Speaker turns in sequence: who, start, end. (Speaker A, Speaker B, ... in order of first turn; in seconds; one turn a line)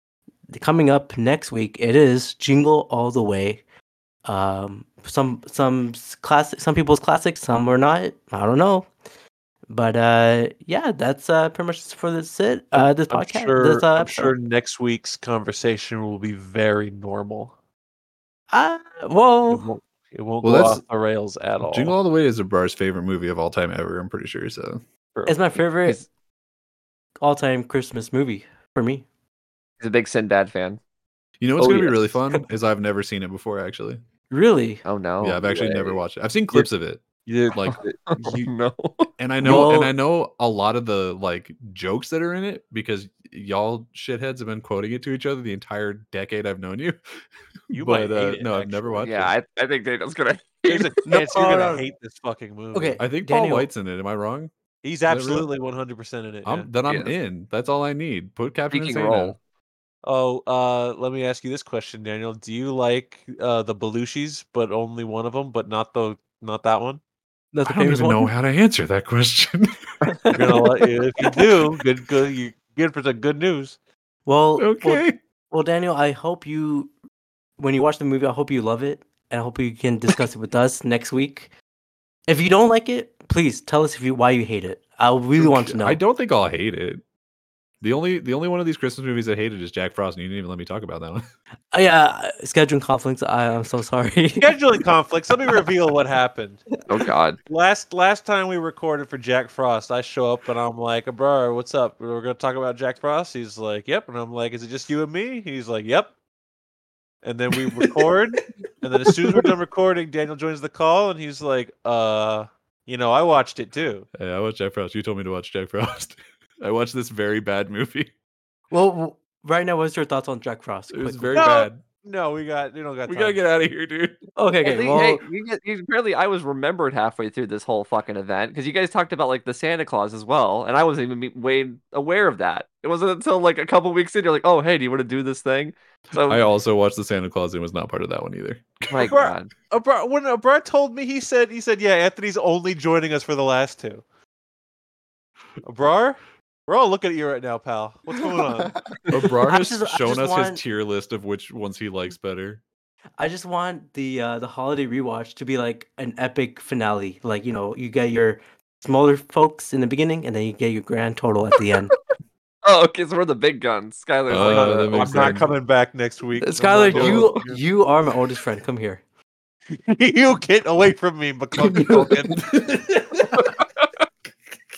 Speaker A: 0.5-3.6
Speaker A: 4.2-8.9
Speaker A: 9.7-14.3
Speaker B: 13.1-17.5
Speaker A: 18.5-19.6
Speaker B: 19.5-21.9
Speaker C: 20.4-20.8
Speaker C: 21.6-24.8
Speaker A: 25.3-26.1
Speaker A: 27.2-29.1
Speaker D: 29.8-30.8
Speaker C: 31.4-34.0
Speaker D: 31.6-32.0
Speaker A: 34.3-34.8
Speaker D: 34.9-36.0
Speaker C: 35.2-37.8
Speaker B: 37.2-38.5
Speaker D: 38.1-39.1
Speaker C: 39.2-47.0
Speaker A: 39.4-39.9
Speaker C: 47.7-49.3
Speaker B: 47.7-49.1
Speaker D: 49.0-51.0
Speaker B: 50.6-53.0
Speaker A: 51.0-51.9
Speaker A: 52.7-53.7
Speaker C: 53.0-54.5
Speaker B: 54.8-56.7
Speaker C: 55.1-55.5
Speaker C: 56.4-59.4
Speaker D: 56.9-57.1
Speaker D: 58.7-59.4
Speaker B: 60.0-67.0
Speaker A: 67.5-68.3
Speaker C: 67.6-69.7
Speaker A: 70.1-70.4
Speaker B: 70.3-73.8
Speaker A: 74.2-76.9
Speaker C: 74.6-75.2
Speaker A: 77.6-81.5
Speaker A: 82.3-86.0
Speaker C: 85.4-87.0
Speaker C: 87.8-91.2
Speaker A: 91.7-94.6
Speaker B: 94.4-96.6
Speaker D: 96.9-97.4
Speaker B: 97.5-106.1
Speaker B: 107.2-114.1
Speaker C: 107.6-108.4
Speaker C: 108.9-109.5
Speaker C: 114.2-118.1
Speaker A: 118.7-121.5
Speaker C: 120.9-121.8
Speaker B: 121.3-123.4
Speaker C: 123.1-124.2
Speaker A: 124.3-125.2
Speaker D: 124.6-136.4
Speaker C: 136.2-139.2
Speaker D: 138.9-139.5
Speaker B: 139.0-144.0
Speaker B: 145.6-148.8
Speaker C: 149.1-152.6
Speaker A: 149.4-150.6
Speaker A: 153.2-161.9
Speaker D: 162.6-165.3
Speaker C: 164.3-165.5
Speaker B: 164.3-167.6
Speaker A: 166.4-169.0
Speaker C: 166.9-167.3
Speaker B: 169.7-172.4
Speaker A: 171.7-172.0
Speaker C: 172.3-173.6